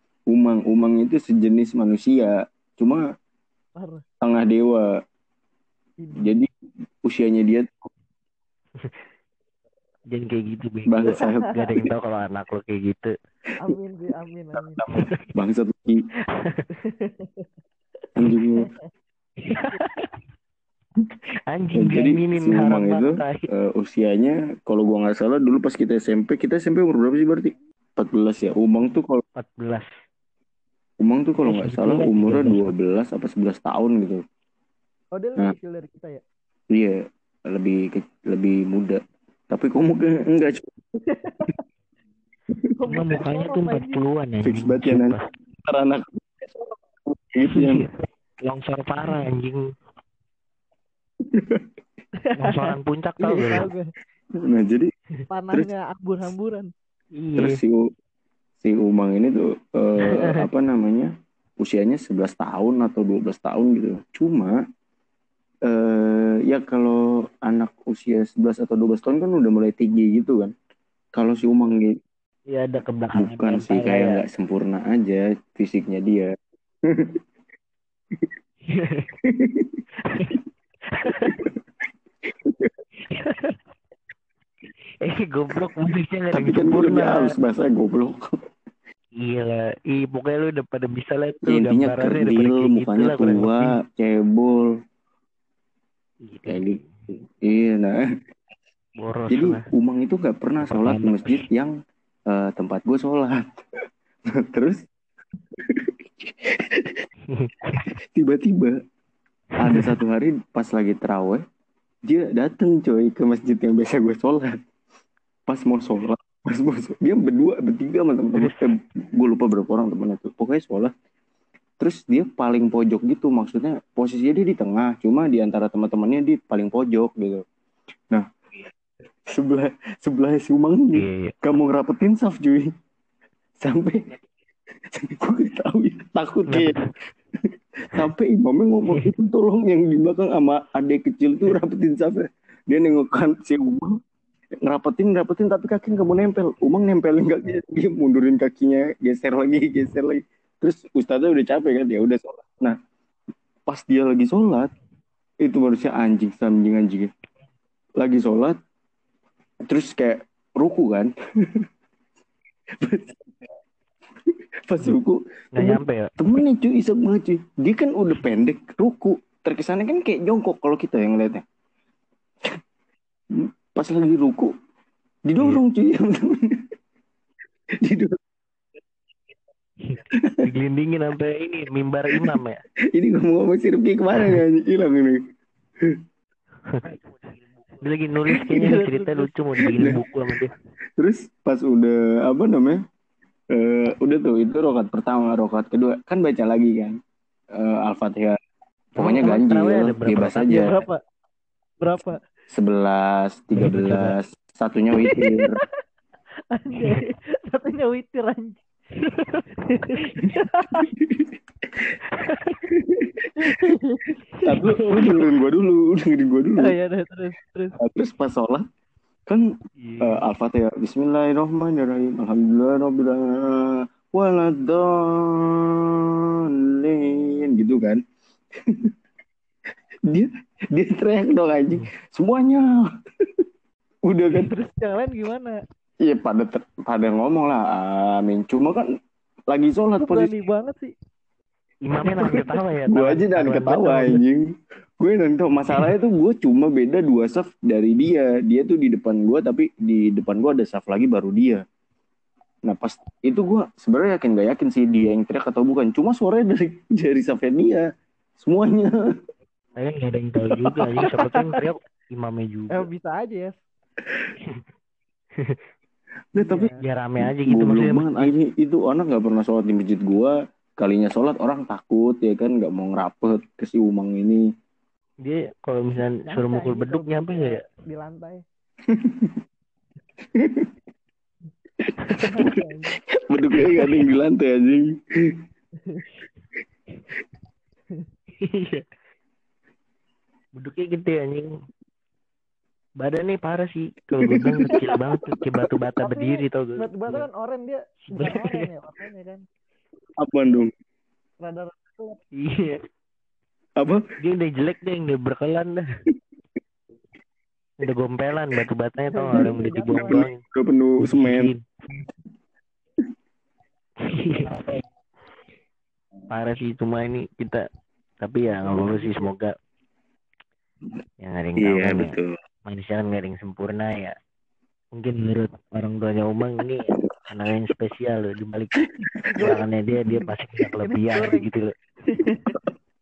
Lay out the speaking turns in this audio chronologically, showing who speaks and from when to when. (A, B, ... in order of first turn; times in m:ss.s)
0:00.3-0:03.0 A
0:03.8-0:04.0 B
0:04.2-0:04.9 A
0:06.0-0:06.4 B
0:06.2-0:06.5 A
0:07.0-0:07.9 A
0:10.1-0:13.1 C
0:10.9-0:11.9 A
0:13.6-0:14.8 B
0:14.6-0:16.0 A
0:16.3-0:16.6 C
0:16.8-0:17.4 B
0:18.2-0:18.7 A
0:19.4-0:20.1 C
0:21.5-0:23.4 C
0:21.8-0:29.2 A
0:29.4-0:29.9 C
0:31.0-0:34.2 A
0:31.4-0:32.7 C
0:35.1-0:36.2 B
0:36.7-0:40.7 A
0:41.2-0:41.6 B
0:42.8-0:44.0 B
0:42.9-0:45.2 C
0:44.4-0:46.2 A
0:47.0-0:47.9 A
0:47.5-0:47.9 C
0:48.4-0:49.6 C
0:51.2-0:51.7 A
0:52.2-0:52.7 B
0:52.4-0:53.7 C
0:53.2-0:53.6 A
0:53.2-0:53.9 B
0:54.3-0:54.9 A
0:55.3-0:56.7 B
0:57.2-0:57.6 C
0:57.4-0:57.8 A
0:58.6-1:04.6 A
1:05.7-1:10.5 A
1:11.1-1:12.0 A
1:12.5-1:14.2 C
1:13.1-1:16.3 A
1:16.8-1:17.2 A
1:18.7-1:19.1 C
1:19.2-1:19.8 A
1:20.1-1:20.4 C
1:20.9-1:21.4 C
1:22.3-1:22.7 A
1:25.0-1:27.3 C
1:26.3-1:28.3 A
1:29.2-1:33.8 C
1:31.5-1:34.7 A
1:36.2-1:37.0 C
1:36.5-1:38.0 A
1:39.0-1:39.6 C
1:39.3-1:41.7 A
1:40.6-1:41.5 C
1:42.3-1:43.6 A
1:44.4-1:44.8 A
1:45.6-1:47.0 A
1:47.3-1:47.9 C
1:48.1-1:48.8 A
1:49.6-1:51.4 A
1:49.6-1:49.9 C
1:52.1-1:54.6 A
1:55.5-2:00.9 A
2:01.8-2:07.4 A
2:09.3-2:12.7 A
2:10.9-2:11.3 C
2:13.6-2:14.1 A
2:14.9-2:16.8 A
2:16.5-2:16.9 C
2:17.4-2:24.0 A
2:24.6-2:32.8 A
2:33.7-2:34.7 A
2:35.4-2:37.1 A
2:38.0-2:38.6 A
2:39.6-2:41.6 A
2:42.7-2:43.2 A
2:44.7-2:51.4 A
2:45.6-2:46.4 C
2:53.3-2:54.5 A
2:55.2-2:56.6 A
2:57.8-2:58.2 A
2:59.8-3:02.6 C
3:00.1-3:00.4 A
3:03.0-3:05.2 A
3:06.7-3:07.0 C
3:07.8-3:10.5 C
3:08.3-3:10.0 B
3:09.7-3:10.0 A
3:11.0-3:12.8 A
3:13.5-3:17.0 A
3:17.5-3:18.4 A
3:19.0-3:20.7 A
3:19.0-3:20.7 C
3:20.5-3:21.0 B
3:21.8-3:22.2 B
3:22.5-3:25.6 A
3:23.6-3:24.1 C
3:25.0-3:25.5 B
3:26.5-3:28.6 B
3:29.2-3:30.9 B
3:30.9-3:31.3 A
3:32.7-3:33.3 A
3:33.4-3:34.5 B
3:34.4-3:36.8 A
3:36.6-3:37.8 B
3:37.8-3:38.6 A
3:39.8-3:40.2 C
3:40.0-3:46.3 A
3:46.8-3:48.0 A
3:48.6-3:48.9 A
3:50.1-3:52.9 A
3:54.0-3:54.5 A
3:54.4-3:55.6 B
3:56.0-3:58.8 A
3:59.5-4:00.3 A
4:00.0-4:00.9 B
4:01.8-4:04.2 C
4:02.2-4:04.5 A
4:05.0-4:11.6 A
4:12.6-4:17.8 A
4:18.4-4:18.9 A
4:19.8-4:22.9 C
4:21.0-4:21.5 B
4:22.7-4:23.5 B
4:26.3-4:34.4 A
4:26.4-4:26.8 B
4:26.8-4:28.3 C
4:35.2-4:37.6 C
4:36.2-4:38.4 B
4:38.9-4:39.4 A
4:40.3-4:40.7 A
4:41.9-4:45.4 A
4:42.0-4:43.0 B
4:48.4-4:48.8 C
4:50.6-4:51.5 C
4:53.0-4:57.3 C
4:54.2-4:54.8 A
4:54.7-4:55.0 B
4:56.0-4:59.4 B
4:58.1-4:58.7 C
5:00.2-5:00.7 A
5:01.4-5:02.2 B
5:02.4-5:02.8 C
5:03.8-5:04.0 A
5:04.2-5:05.8 C
5:07.8-5:10.4 C
5:09.1-5:10.2 B
5:09.3-5:12.0 A
5:11.0-5:11.8 C
5:14.0-5:14.8 C
5:16.3-5:17.6 C
5:18.2-5:19.5 C
5:18.4-5:19.3 B
5:21.2-5:24.1 C
5:21.6-5:22.3 A
5:24.9-5:28.8 C
5:29.2-5:31.4 B
5:29.4-5:31.7 C
5:32.0-5:32.6 B